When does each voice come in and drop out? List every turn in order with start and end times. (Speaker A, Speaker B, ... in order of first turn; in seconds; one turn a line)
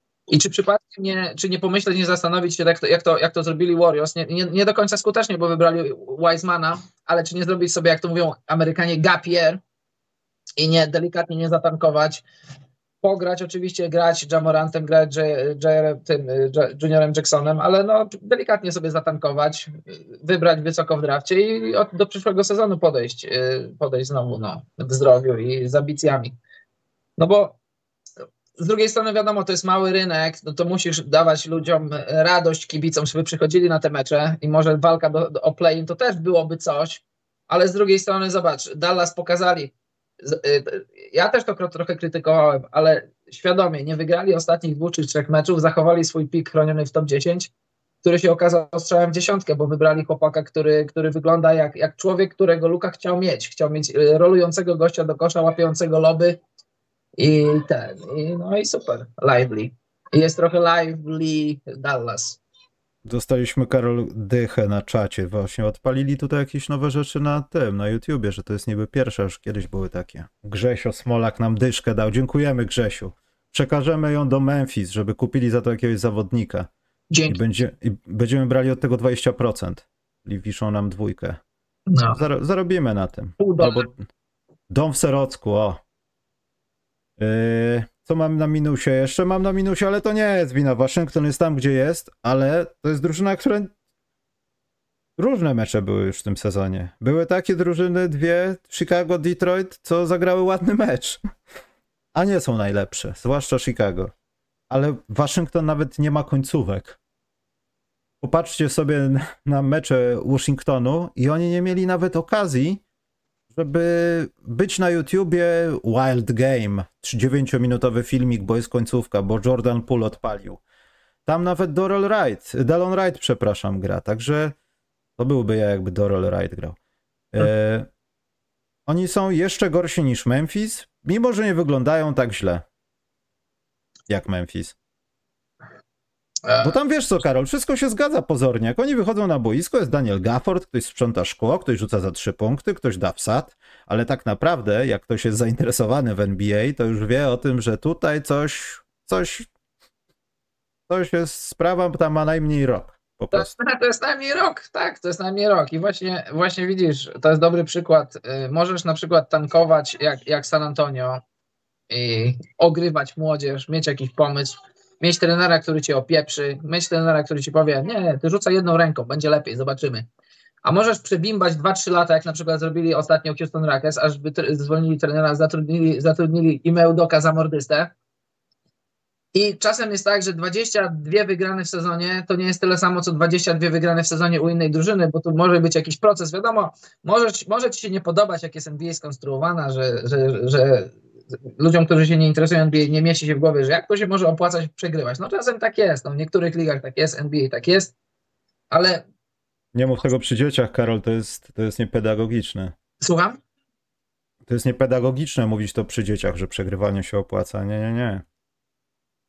Speaker A: 0.3-9.6
Speaker A: 10.6-12.2
Speaker A: 13.0-26.4
Speaker A: 27.2-27.6
Speaker A: 28.6-47.5
Speaker A: 48.0-56.4
Speaker A: 57.2-62.4
Speaker B: 63.0-76.7
Speaker A: 77.1-77.4
Speaker B: 77.3-81.4
Speaker A: 81.9-82.2
Speaker B: 82.1-84.0
Speaker A: 83.4-83.9
Speaker B: 84.7-85.8
Speaker B: 87.2-93.7
Speaker B: 95.2-101.2
Speaker B: 102.1-104.1
Speaker B: 104.7-107.0
Speaker B: 108.2-112.8
Speaker B: 113.5-120.6
Speaker B: 121.3-124.5
Speaker B: 125.2-126.8
Speaker B: 127.3-127.9
Speaker B: 128.9-132.6
Speaker B: 134.1-134.8
Speaker A: 136.4-136.8
Speaker B: 136.6-149.5
Speaker B: 150.9-153.5
Speaker A: 153.3-161.2
Speaker A: 161.9-170.1
Speaker A: 170.6-177.9
Speaker A: 179.3-190.9
Speaker A: 191.6-197.9
Speaker A: 198.7-199.0
Speaker B: 199.7-202.7
Speaker A: 203.0-203.4
Speaker B: 204.5-208.2